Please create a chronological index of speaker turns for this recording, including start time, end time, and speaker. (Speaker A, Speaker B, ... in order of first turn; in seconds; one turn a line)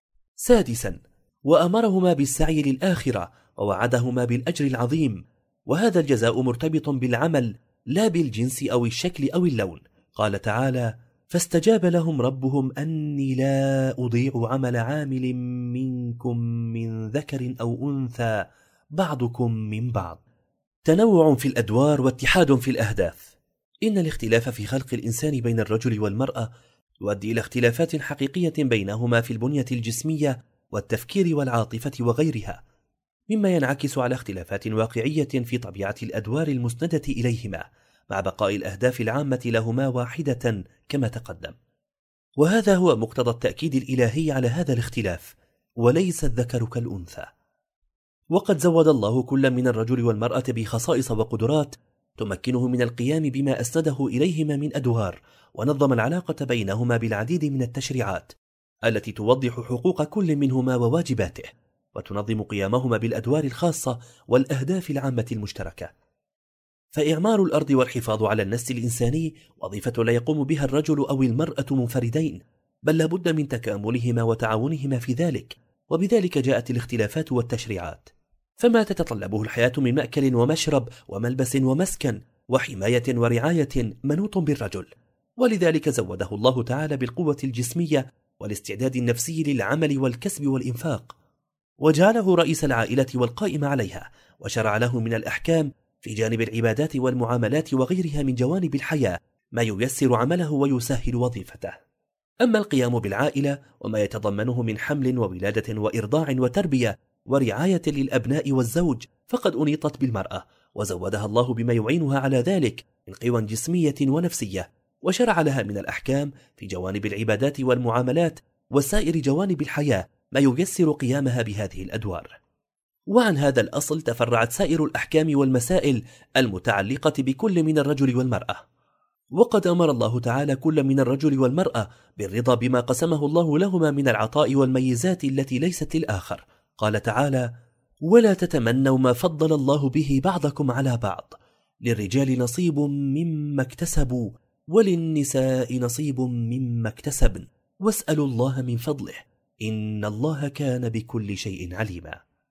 Speaker A: 0.4-20.2
Speaker A: 20.9-23.3
Speaker A: 23.9-26.5
Speaker A: 27.0-32.6
Speaker A: 33.3-41.5
Speaker A: 42.4-47.3
Speaker A: 48.3-58.3
Speaker A: 58.9-65.9
Speaker A: 67.0-91.2
Speaker A: 91.8-101.8
Speaker A: 102.4-122.3
Speaker A: 123.1-128.6
Speaker A: 129.4-137.5
Speaker A: 138.1-152.2